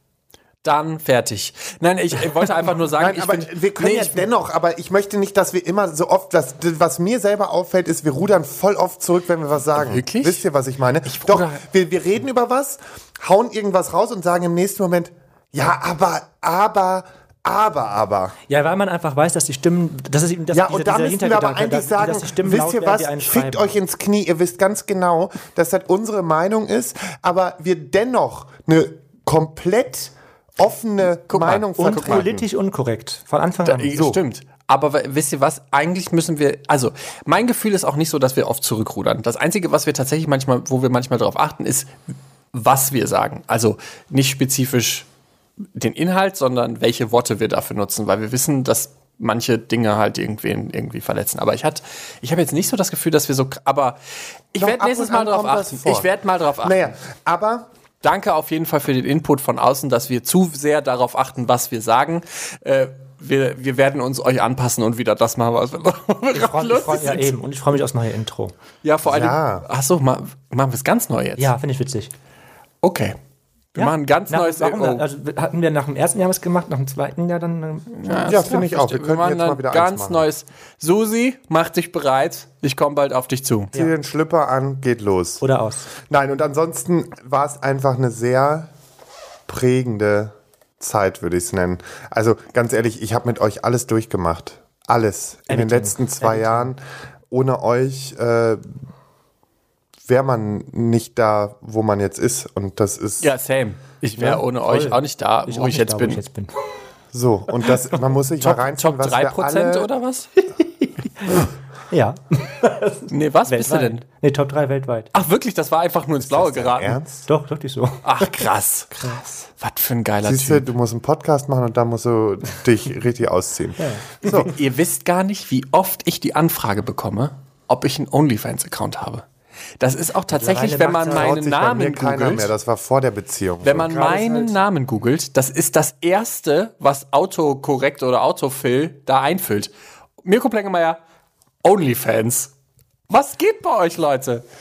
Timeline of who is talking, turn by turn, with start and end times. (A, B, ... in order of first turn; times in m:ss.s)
0:00.6-0:04.2 A
0:02.9-0:18.3 B
0:09.7-0:10.4 A
0:11.0-0:11.6 A
0:18.5-0:23.8 C
0:20.5-0:32.4 B
0:31.3-0:32.2 A
0:31.8-0:34.2 C
0:33.6-0:42.0 A
0:42.5-0:45.1 A
0:45.7-0:54.0 A
0:54.5-0:56.9 A
0:54.6-0:56.1 B
0:56.6-0:57.7 B
0:58.0-1:07.3 A
1:06.3-1:08.5 C
1:08.8-1:11.5 A
1:09.0-1:09.6 B
1:11.4-1:12.1 C
1:12.8-1:13.2 A
1:13.7-1:15.0 A
1:13.8-1:18.4 C
1:17.9-1:23.7 A
1:18.3-1:20.3 B
1:23.7-1:25.4 B
1:25.4-1:25.9 C
1:26.0-1:28.7 B
1:29.5-1:36.8 B
1:35.5-1:36.7 C
1:37.3-1:38.7 B
1:40.0-1:43.3 B
1:43.2-1:46.2 A
1:44.2-1:46.5 C
1:47.1-1:49.9 B
1:48.4-1:50.3 A
1:50.5-1:55.1 C
1:53.1-1:54.0 A
1:55.1-1:56.9 A
1:56.3-1:57.2 B
1:57.2-1:58.3 C
1:58.0-2:00.6 A
2:00.2-2:04.5 B
2:03.8-2:04.2 C
2:04.2-2:09.2 A
2:09.8-2:12.5 A
2:10.3-2:11.4 C
2:11.1-2:13.9 B
2:13.6-2:19.7 A
2:13.8-2:14.6 C
2:20.2-2:21.0 A
2:21.6-2:22.5 A
2:23.1-2:24.4 A